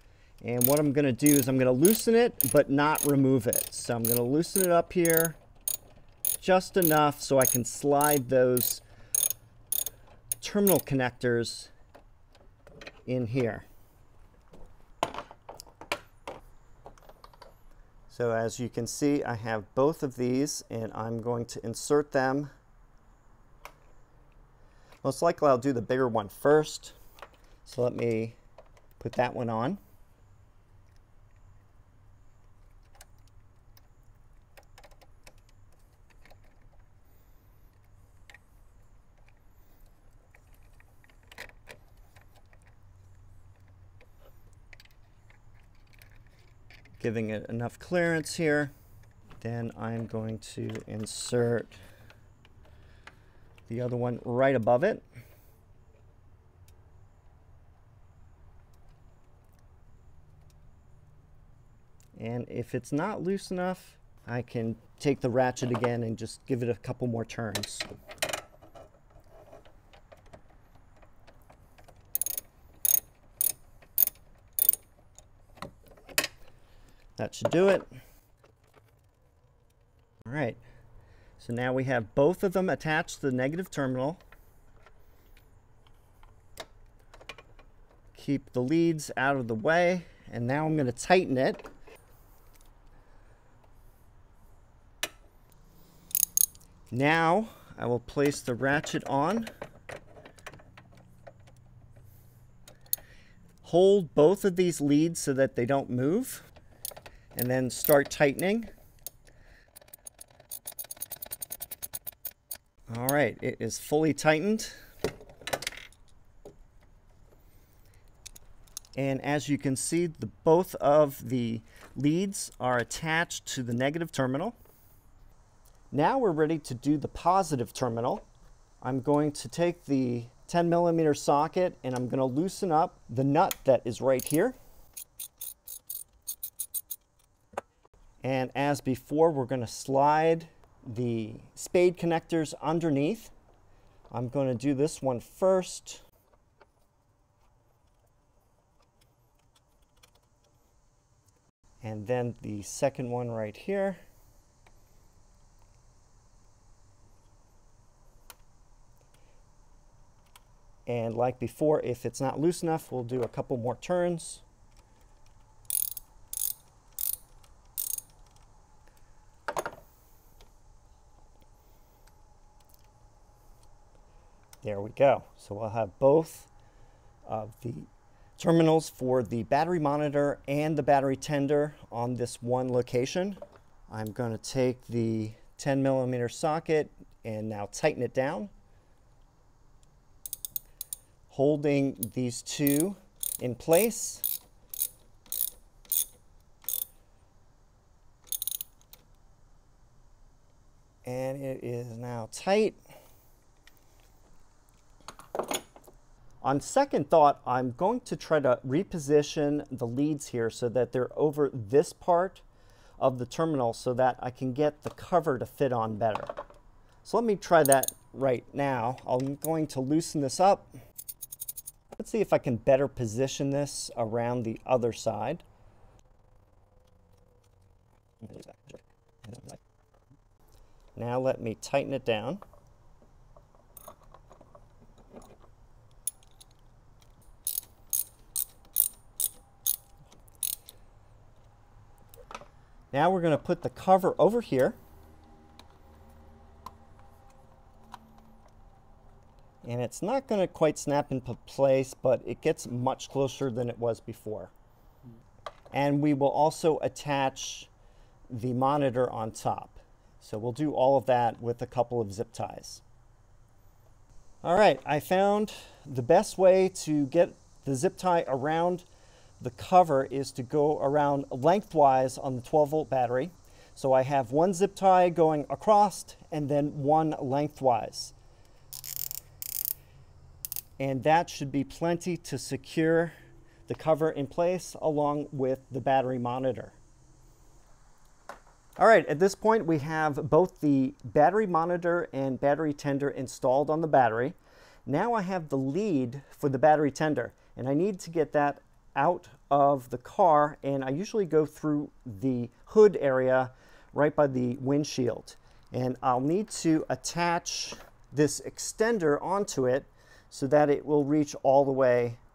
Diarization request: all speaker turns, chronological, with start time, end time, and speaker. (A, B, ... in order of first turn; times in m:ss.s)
0:00.4-0:05.4 A
0:06.4-0:08.8 A
0:10.4-0:11.7 A
0:13.1-0:13.7 A
0:18.1-0:22.5 A
0:25.0-0:27.0 A
0:27.6-0:28.4 A
0:29.0-0:29.8 A
0:47.0-0:48.7 A
0:49.4-0:51.8 A
0:53.7-0:55.0 A
1:02.2-1:07.9 A
1:17.2-1:17.9 A
1:20.2-1:20.6 A
1:21.4-1:24.2 A
1:28.1-1:31.7 A
1:36.9-1:39.5 A
1:43.6-1:46.5 A
1:47.3-1:48.7 A
1:52.9-1:54.8 A
1:59.0-2:04.6 A
2:05.9-2:08.2 A
2:08.8-2:14.6 A
2:18.2-2:23.3 A
2:24.1-2:26.0 A
2:31.8-2:34.0 A
2:40.9-2:44.4 A
2:54.6-2:56.5 A
2:57.3-3:08.5 A
3:11.3-3:14.3 A
3:21.0-3:22.8 A
3:26.4-3:32.4 A
3:33.0-3:36.3 A
3:37.0-3:40.8 A
3:42.0-3:45.4 A
3:48.2-3:49.6 A
3:51.0-3:52.4 A
4:02.9-4:04.8 A
4:09.6-4:14.5 A
4:15.7-4:17.7 A
4:18.3-4:22.8 A
4:24.4-4:28.9 A
4:29.4-4:38.2 A
4:40.8-4:43.1 A
4:43.7-4:46.8 A
4:48.8-5:12.2 A